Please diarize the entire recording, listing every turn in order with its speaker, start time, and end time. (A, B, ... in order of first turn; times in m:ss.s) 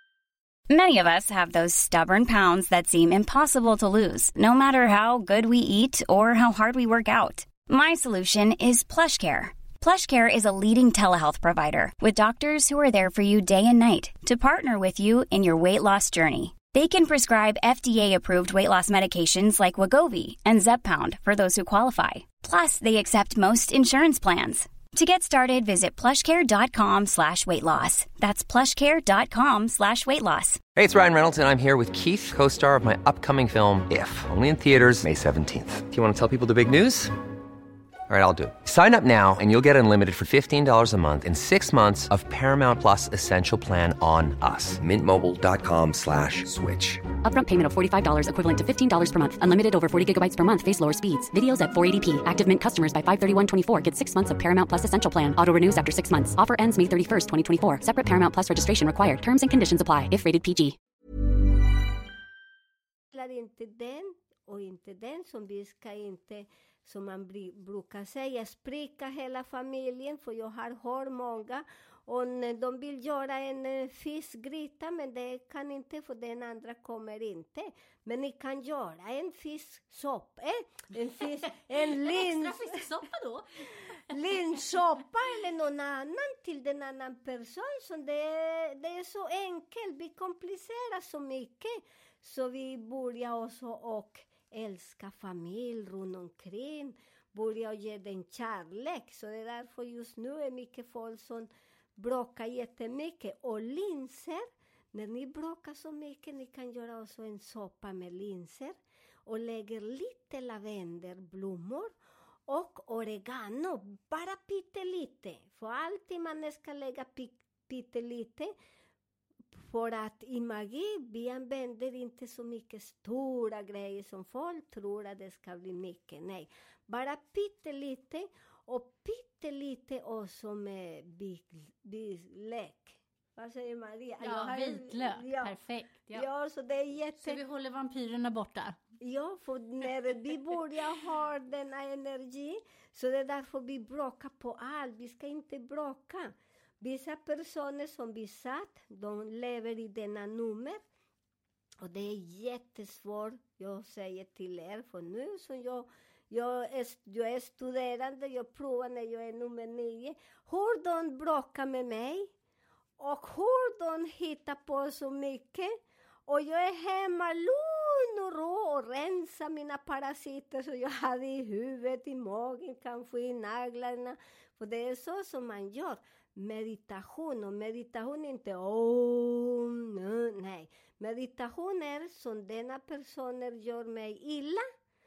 0:00.7-0:30.6 A
0:30.8-0:37.1 B
0:38.1-0:47.0 B
0:47.2-1:00.8 C
1:03.1-1:22.8 D
1:21.7-1:23.7 E
1:24.1-1:52.0 D
1:52.5-1:58.5 D
1:59.6-2:15.6 D
2:14.2-2:16.3 E
2:16.1-2:17.4 D
2:17.2-2:18.8 E
2:19.0-2:30.8 D
2:31.8-2:42.3 D
2:43.0-3:04.6 D